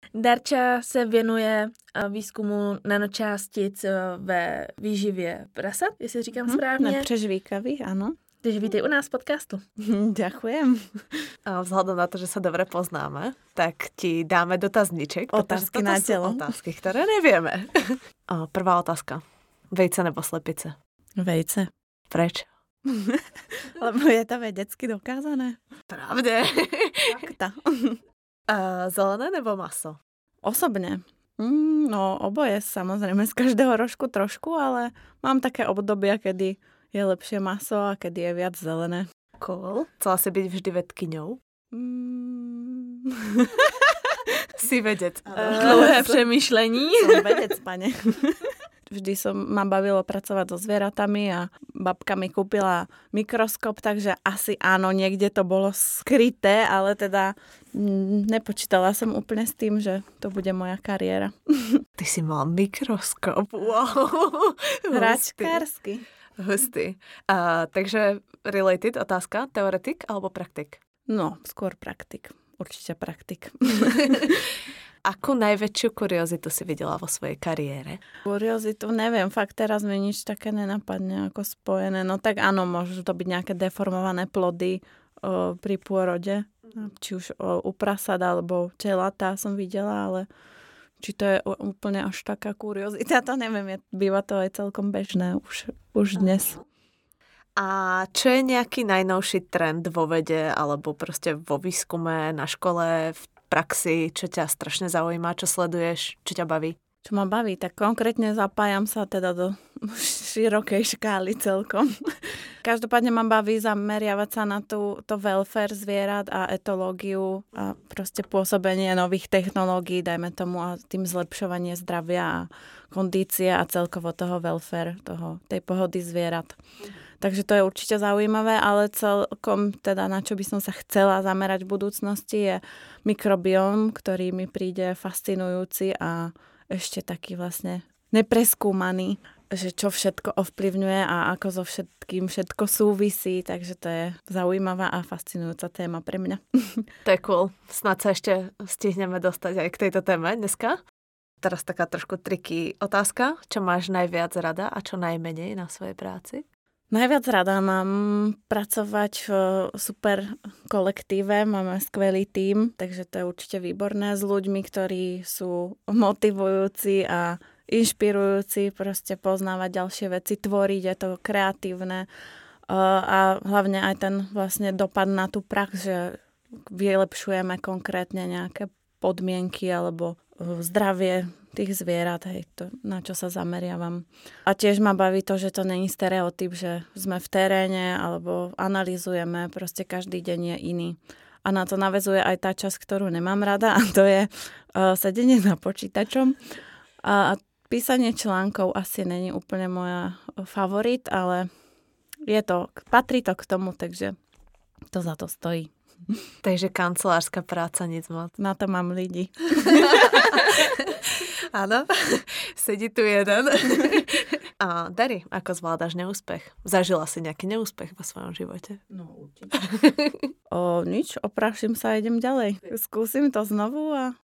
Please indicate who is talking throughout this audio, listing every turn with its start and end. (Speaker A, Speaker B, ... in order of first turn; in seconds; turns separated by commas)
Speaker A: 0.1-7.1, Speaker B: 6.5-8.2, Speaker A: 8.4-9.6, Speaker B: 9.8-11.2, Speaker C: 11.4-20.7, Speaker B: 15.3-16.5, Speaker B: 21.2-21.7, Speaker C: 22.1-22.4, Speaker B: 22.9-25.6, Speaker C: 25.9-27.3, Speaker B: 27.1-28.0, Speaker C: 28.5-30.0, Speaker B: 30.4-39.0, Speaker C: 39.4-41.4, Speaker B: 41.7-44.0, Speaker C: 44.6-45.9, Speaker B: 45.3-46.2, Speaker A: 45.4-47.5, Speaker B: 47.0-61.8, Speaker C: 62.0-65.6, Speaker B: 64.9-66.0, Speaker C: 66.4-70.8, Speaker B: 71.1-74.4, Speaker C: 75.0-78.0, Speaker B: 78.2-90.3, Speaker B: 91.0-96.5, Speaker C: 97.6-106.8, Speaker B: 107.0-126.6, Speaker B: 127.2-146.9, Speaker C: 147.0-150.8, Speaker C: 151.4-156.4, Speaker B: 156.9-172.1, Speaker B: 172.7-196.3, Speaker B: 197.0-201.5, Speaker B: 202.3-204.2, Speaker B: 204.9-206.2, Speaker C: 206.4-208.3, Speaker B: 208.4-210.4, Speaker C: 209.6-218.8, Speaker C: 219.5-220.1, Speaker B: 220.5-224.1